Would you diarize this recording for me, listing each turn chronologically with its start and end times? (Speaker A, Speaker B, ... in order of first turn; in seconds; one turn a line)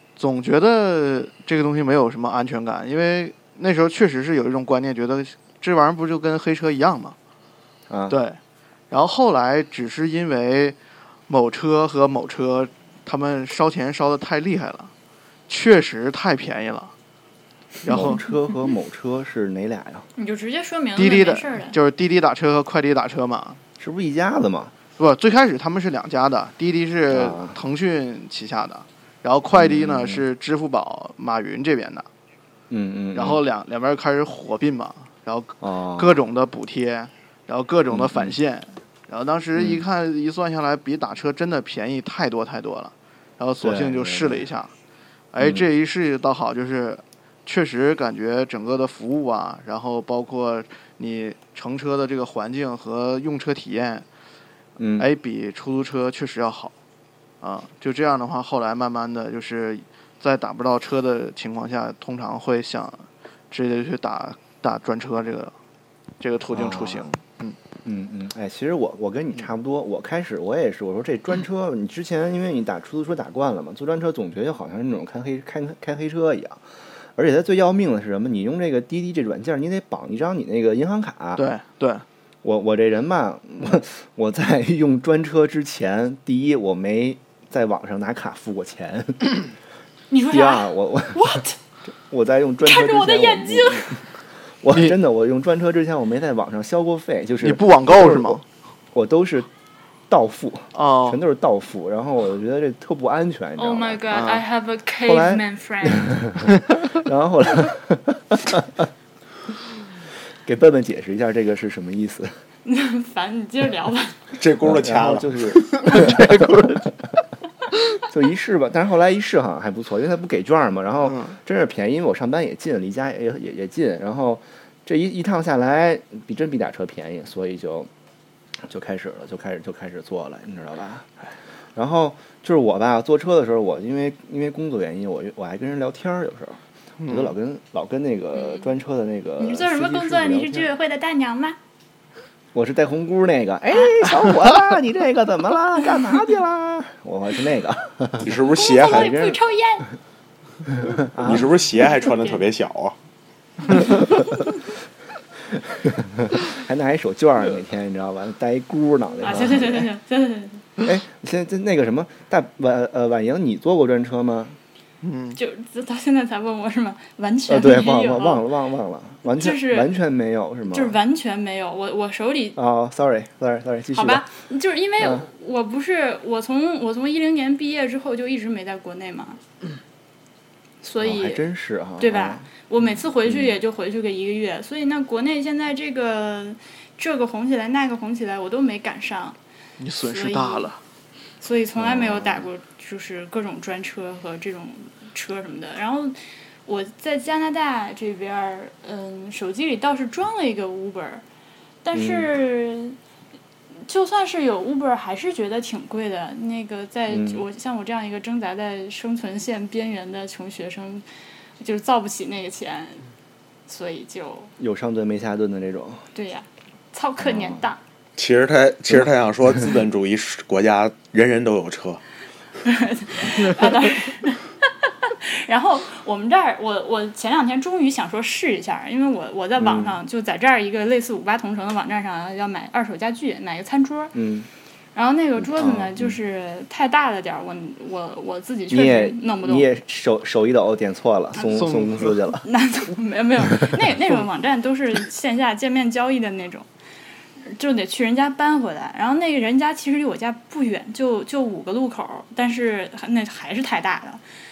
Speaker A: 0.2-7.2
Speaker B: 7.9-8.2
Speaker A: 8.1-8.4
Speaker A: 8.9-10.8
Speaker A: 11.3-14.9
Speaker A: 15.5-16.9
Speaker A: 17.8-18.2
Speaker B: 17.9-20.1
Speaker C: 20.2-21.8
Speaker A: 20.9-23.6
Speaker B: 23.8-24.7
Speaker A: 25.0-32.1
Speaker B: 27.1-27.6
Speaker B: 29.5-30.3
Speaker B: 32.7-33.4
Speaker A: 33.1-44.7
Speaker B: 35.6-36.2
Speaker B: 37.9-38.4
Speaker B: 39.5-39.8
Speaker B: 43.6-44.5
Speaker A: 45.3-54.0
Speaker B: 45.4-45.7
Speaker B: 54.8-55.1
Speaker A: 55.0-56.7
Speaker A: 57.4-65.5
Speaker A: 66.2-67.6
Speaker B: 66.5-67.1
Speaker B: 67.8-76.6
Speaker B: 77.1-81.4
Speaker A: 81.3-82.0
Speaker B: 82.4-89.4
Speaker C: 90.1-91.5
Speaker B: 90.3-91.4
Speaker B: 92.1-94.0
Speaker C: 92.6-93.9
Speaker B: 94.6-98.4
Speaker A: 97.4-98.4
Speaker B: 98.9-99.5
Speaker B: 100.1-104.2
Speaker A: 100.7-101.2
Speaker C: 103.6-106.1
Speaker A: 104.1-104.4
Speaker B: 105.0-108.9
Speaker B: 110.4-112.3
Speaker C: 112.6-114.1
Speaker D: 114.4-116.8
Speaker B: 114.6-116.9
Speaker B: 118.0-127.9
Speaker A: 121.0-121.4
Speaker B: 128.6-131.1
Speaker B: 131.8-140.7
Speaker A: 137.0-137.3
Speaker C: 138.3-138.7
Speaker C: 139.4-141.6
Speaker B: 142.5-149.4
Speaker D: 148.2-149.1
Speaker C: 148.5-149.9
Speaker B: 150.7-151.5
Speaker D: 151.2-152.9
Speaker C: 151.8-152.4
Speaker B: 153.7-154.0
Speaker C: 154.2-154.5
Speaker B: 155.5-159.9
Speaker C: 159.2-160.6
Speaker B: 160.8-164.6
Speaker A: 165.0-165.4
Speaker C: 165.3-168.4
Speaker B: 167.5-171.0
Speaker C: 169.4-169.9
Speaker C: 170.7-172.6
Speaker B: 172.6-174.2
Speaker C: 173.9-179.4
Speaker B: 175.0-175.3
Speaker C: 180.8-181.4
Speaker B: 181.0-182.5
Speaker C: 182.0-189.4
Speaker B: 183.3-183.5
Speaker A: 189.8-190.8
Speaker C: 190.0-190.7
Speaker C: 191.4-201.2
Speaker B: 191.8-192.5
Speaker C: 201.8-203.0
Speaker B: 201.9-202.3
Speaker C: 203.9-211.0
Speaker B: 207.1-207.4
Speaker C: 211.6-213.0
Speaker C: 213.7-214.5
Speaker B: 214.6-216.0
Speaker C: 216.1-217.8
Speaker B: 217.2-217.7
Speaker D: 218.2-222.0
Speaker C: 222.6-234.1
Speaker B: 229.6-230.0
Speaker B: 234.1-234.5
Speaker C: 234.9-239.7
Speaker B: 235.4-236.2
Speaker B: 238.7-242.4
Speaker C: 241.3-241.6
Speaker A: 241.5-242.2
Speaker C: 242.4-246.7
Speaker C: 247.4-254.2